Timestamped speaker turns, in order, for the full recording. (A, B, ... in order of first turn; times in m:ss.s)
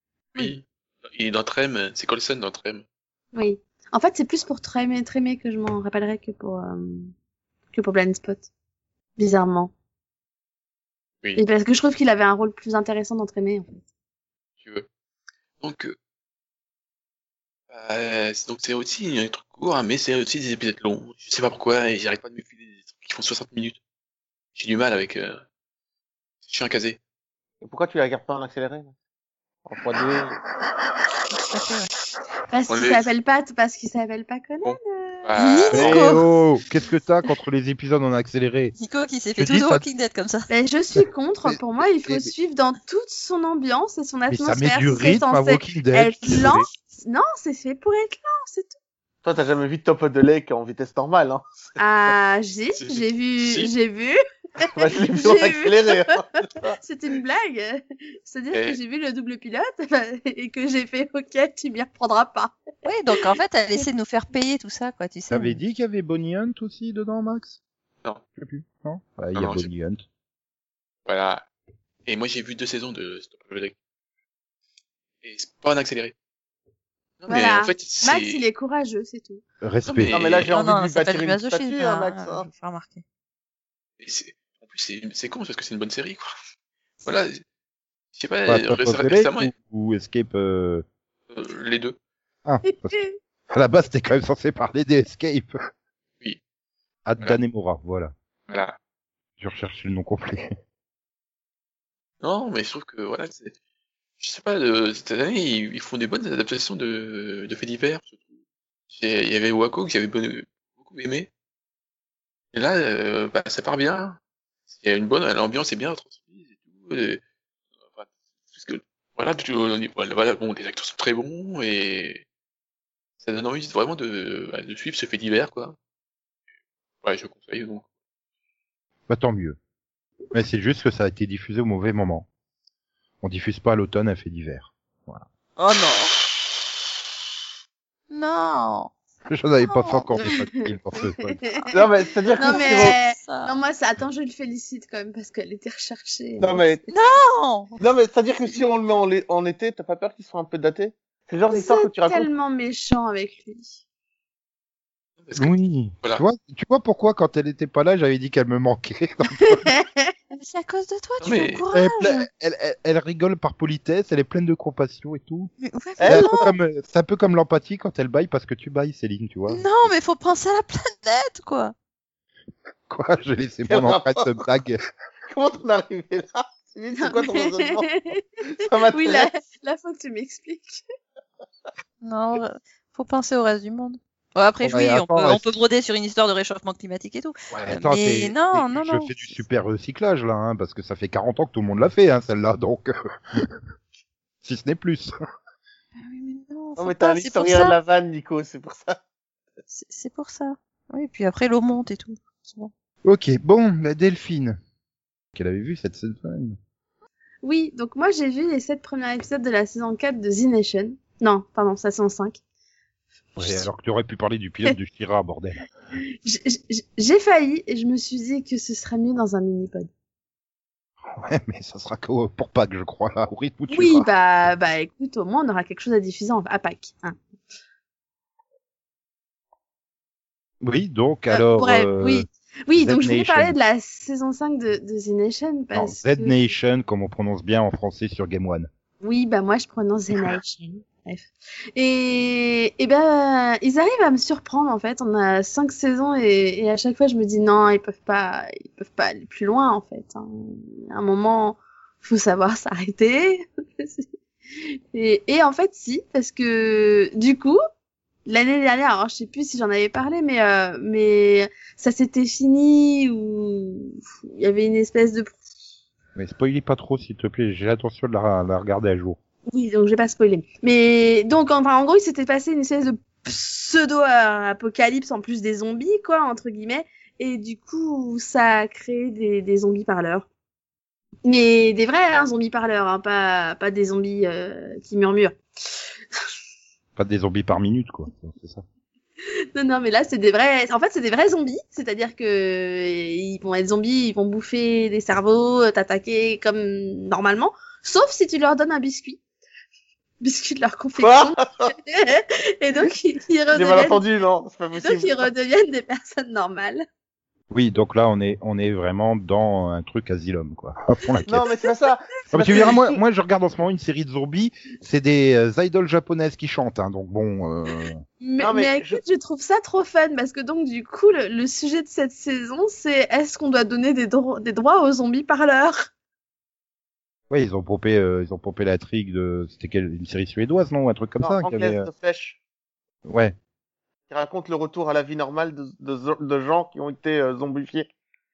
0:00.3-0:02.8 A
0:03.3-0:07.1 B
0:07.7-0:08.5 B
0:09.2-0:09.7 B
0:11.3-0:13.8 B
0:14.6-0:14.9 A
0:15.6-0:16.0 A
0:17.7-0:23.8 A
0:24.5-0:25.4 A
0:26.4-0:27.0 A
0:27.6-0:28.9 C
0:29.6-0:30.4 C
0:31.5-0:31.9 D
0:32.5-0:35.3 B
0:32.7-0:33.1 A
0:34.6-0:36.0 A
0:35.4-0:36.2 D
0:35.7-0:38.8 E
0:38.8-0:40.5 D
0:39.4-0:39.8 E
0:40.5-0:48.7 B
0:41.0-0:42.3 E
0:44.3-0:46.7 E
0:49.2-0:51.8 C
0:51.8-0:56.2 B
0:52.8-0:53.7 A
0:54.7-0:56.8 C
0:56.8-1:02.6 B
0:58.5-0:58.8 A
1:02.8-1:05.6 D
1:03.1-1:03.8 B
1:05.3-1:07.6 E
1:08.4-1:10.0 E
1:09.3-1:09.7 A
1:11.0-1:11.4 A
1:12.0-1:13.8 A
1:15.2-1:16.1 A
1:17.2-1:18.4 A
1:17.3-1:19.4 B
1:19.6-1:20.2 E
1:19.9-1:20.5 A
1:20.1-1:22.5 C
1:20.5-1:23.0 D
1:24.0-1:26.3 A
1:27.0-1:27.4 A
1:28.2-1:29.5 A
1:28.4-1:30.8 E
1:31.3-1:32.0 A
1:32.4-1:33.0 E
1:32.6-1:33.1 B
1:33.5-1:35.5 E
1:37.0-1:38.1 E
1:38.5-1:38.8 A
1:39.4-1:40.5 E
1:42.2-1:43.5 A
1:44.2-1:48.3 A
1:48.9-1:51.3 A
1:52.5-1:57.2 A
1:57.9-2:02.2 A
2:03.2-2:05.8 A
2:07.0-2:07.8 A
2:09.1-2:09.6 E
2:10.3-2:12.2 E
2:13.2-2:15.2 E
2:15.6-2:16.1 D
2:18.1-2:18.9 D
2:19.3-2:21.4 E
2:19.6-2:20.1 D
2:20.2-2:21.7 B
2:21.7-2:22.9 C
2:22.3-2:26.8 B
2:22.4-2:23.5 D
2:26.4-2:26.8 C
2:26.9-2:27.8 D
2:27.8-2:32.3 C
2:31.5-2:33.8 B
2:35.2-2:36.2 A
2:35.4-2:39.7 E
2:39.4-2:40.1 B
2:40.3-2:42.2 D
2:41.2-2:41.6 A
2:41.7-2:45.5 E
2:45.6-2:46.3 D
2:46.0-2:46.4 C
2:46.0-2:49.9 E
2:49.5-2:51.7 D
2:52.9-2:54.8 E
2:53.7-2:54.3 C
2:55.3-2:57.9 C
2:57.0-3:00.8 B
2:58.5-2:59.3 C
3:02.0-3:09.1 D
3:04.6-3:05.4 E
3:07.5-3:13.5 E
3:14.4-3:15.1 E
3:16.0-3:17.8 D
3:16.8-3:19.0 C
3:19.7-3:22.7 D
3:23.0-3:24.6 E
3:25.3-3:26.6 E
3:27.4-3:32.4 B
3:33.3-3:33.6 B
3:33.4-3:35.6 E
3:36.2-3:39.9 B
3:41.2-3:44.1 E
3:43.7-3:47.2 B
3:50.6-3:53.6 E
3:51.3-3:56.4 B
3:55.7-3:58.7 E
3:59.0-4:14.0 B
4:14.9-4:17.6 B
4:18.2-4:25.4 B
4:26.1-4:29.2 E
4:29.5-4:40.2 B
4:41.2-4:45.4 B
4:47.0-4:48.6 E
4:49.5-4:59.2 B
5:00.2-5:04.0 B
5:01.0-5:01.7 C
5:03.5-5:05.3 C
5:04.8-5:06.8 B
5:07.5-5:11.4 E
5:11.3-5:13.0 C
5:12.3-5:18.0 E
5:18.2-5:25.9 B
5:18.4-5:19.0 C
5:27.3-5:31.9 E
5:31.2-5:32.4 C
5:33.0-5:33.4 E
5:34.1-5:37.9 C